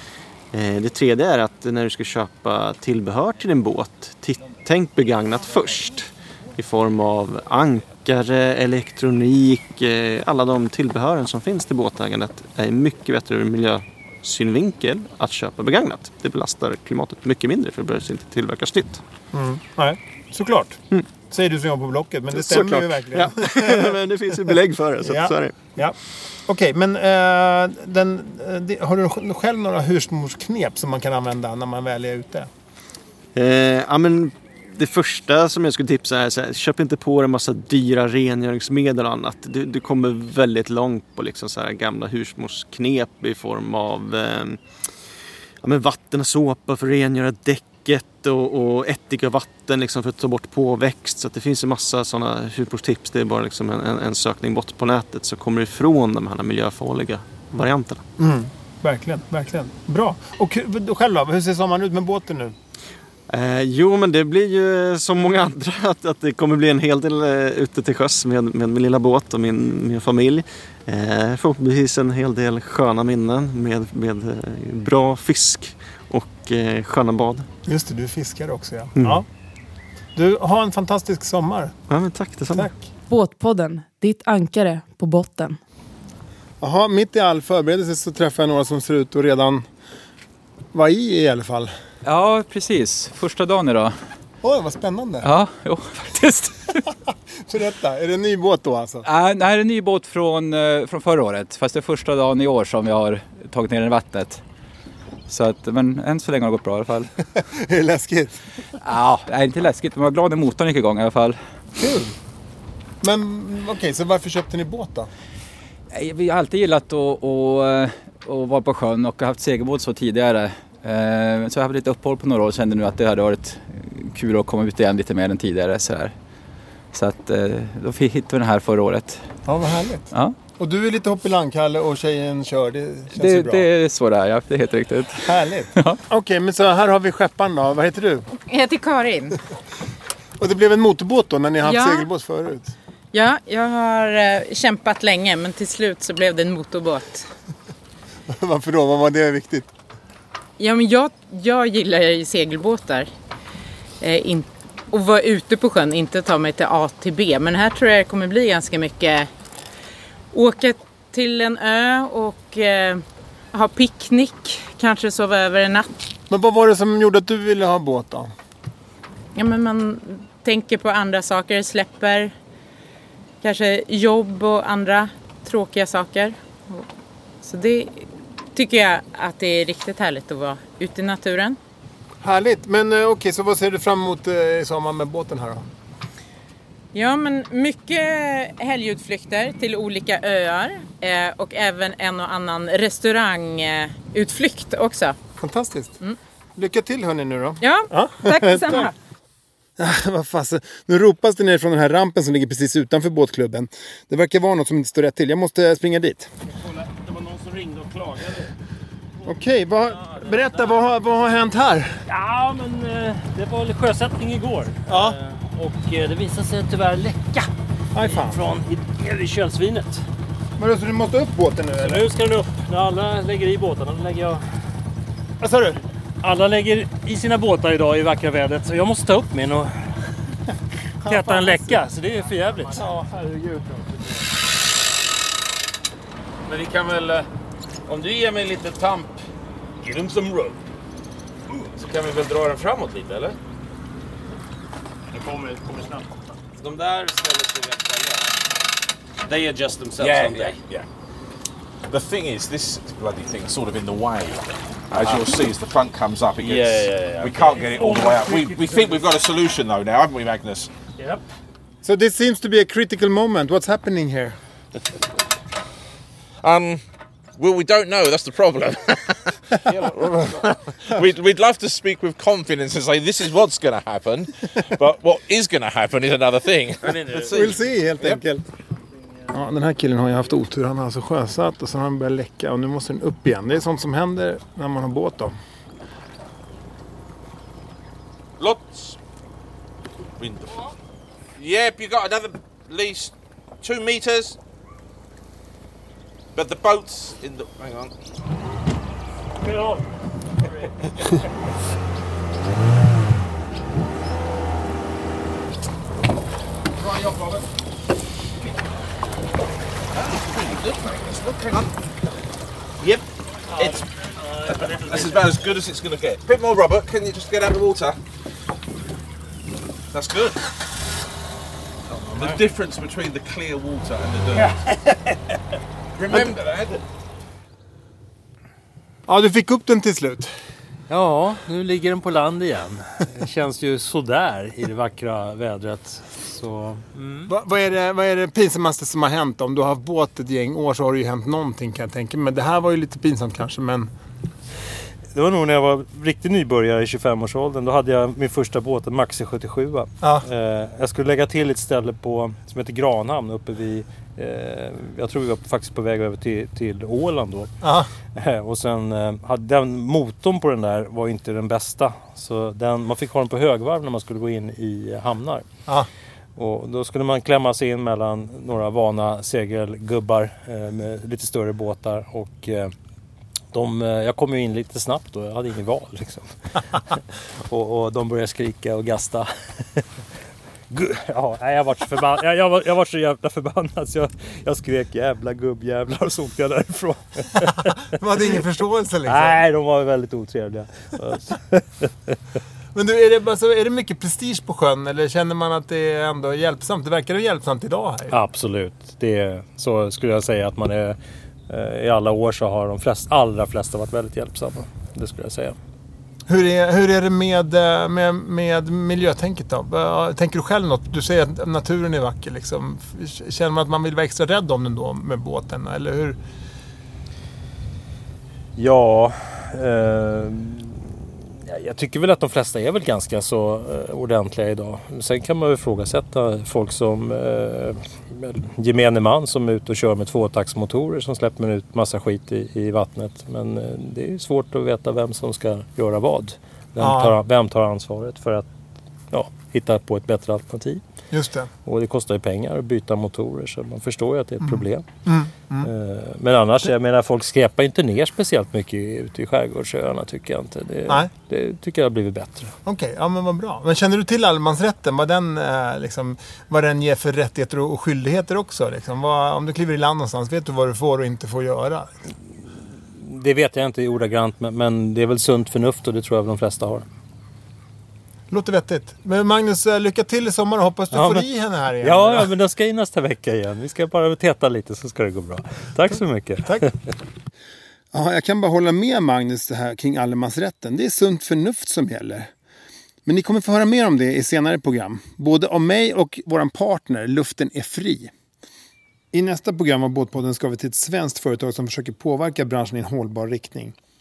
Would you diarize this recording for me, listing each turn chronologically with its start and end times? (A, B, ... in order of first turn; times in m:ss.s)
0:00.5-0:19.0 A
0:19.3-0:24.0 B
0:22.3-0:25.6 A
0:25.0-0:32.5 B
0:33.4-0:44.6 A
0:45.6-0:58.0 A
0:58.2-1:02.6 B
1:03.3-1:17.5 A
1:17.7-1:19.2 B
1:19.0-1:19.2 A
1:20.2-1:21.8 B
1:21.9-1:22.7 A
1:23.1-1:25.6 C
1:26.6-1:29.6 B
1:30.7-1:31.7 B
1:32.0-1:34.0 D
1:34.4-1:35.3 B
1:35.2-1:36.8 D
1:37.5-1:39.0 B
1:39.0-1:44.4 D
1:45.3-1:47.1 D
1:47.6-1:48.3 B
1:48.8-1:51.4 D
1:51.8-1:52.1 B
1:53.0-1:55.1 B
1:55.9-2:06.2 D
2:06.9-2:09.3 D
2:09.5-2:13.6 B
2:13.1-2:16.0 D
2:15.2-2:18.3 B
2:18.5-2:19.4 E
2:20.4-2:22.7 B
2:21.6-2:22.1 E
2:23.1-2:27.3 E
2:28.3-2:29.7 B
2:30.6-2:33.1 E
2:34.0-2:39.3 E
2:40.3-2:45.9 E
2:46.3-2:48.3 B
2:49.4-2:52.3 E
2:53.4-2:56.9 E
2:57.4-3:01.6 E
3:02.2-3:05.7 B
3:06.9-3:15.2 E
3:15.4-3:16.0 B
3:16.6-3:18.9 B
3:17.6-3:18.9 E
3:19.8-3:26.3 B
3:27.1-3:28.5 F
3:29.2-3:32.0 B
3:32.1-3:37.5 G
3:34.9-3:35.2 B
3:37.9-3:38.4 B
3:38.1-3:40.0 G
3:40.6-3:42.1 B
3:41.8-3:44.5 G
3:45.4-3:45.8 B
3:46.2-3:49.9 G
3:51.0-3:52.8 G
3:51.0-3:51.8 B
3:52.7-3:53.8 B
3:56.5-3:57.3 F
3:57.9-3:59.2 F
3:59.8-4:00.6 F
4:01.8-4:03.4 F
4:06.6-4:08.3 F
4:09.3-4:10.6 F
4:10.0-4:10.9 H
4:11.9-4:20.7 H
4:15.0-4:15.3 F
4:16.4-4:17.6 F
4:17.7-4:18.5 G
4:21.8-4:24.4 B
4:26.4-4:26.8 H
4:27.4-4:38.2 H
4:37.1-4:38.4 B
4:39.3-4:45.4 B
4:48.4-4:49.0 H
4:50.2-4:50.7 H
4:51.4-4:54.4 H
4:56.4-4:57.9 H
5:06.8-5:07.4 H
5:10.0-5:11.7 H
5:13.5-5:13.9 H
5:14.4-5:18.0 H
5:19.9-5:20.4 H
5:21.9-5:24.6 H
5:26.0-5:26.8 H
5:29.1-5:30.3 B
5:30.9-5:37.3 G
5:37.3-5:43.9 B
5:45.1-5:57.6 G
5:50.0-5:50.3 B
5:57.6-5:57.9 B
5:58.2-6:05.5 G
6:06.4-6:12.7 G
6:13.5-6:16.6 G
6:17.5-6:19.8 G
6:20.7-6:27.7 G
6:28.0-6:29.4 B
6:29.1-6:31.9 G
6:32.7-6:38.2 B
6:38.1-6:45.6 G
6:46.3-6:56.2 B
6:58.6-7:18.5 G
7:16.8-7:17.2 B
7:19.1-7:20.8 G
7:21.1-7:21.5 B
7:21.7-7:24.9 G
7:24.4-7:25.7 B
7:25.6-7:32.5 G
7:30.9-7:31.1 B
7:32.6-7:41.9 B
7:43.0-7:46.8 G
7:48.3-7:52.3 B
7:50.9-7:51.3 G
7:51.8-7:56.7 G
7:57.9-8:02.3 B
8:03.1-8:08.1 B
8:09.1-8:13.8 B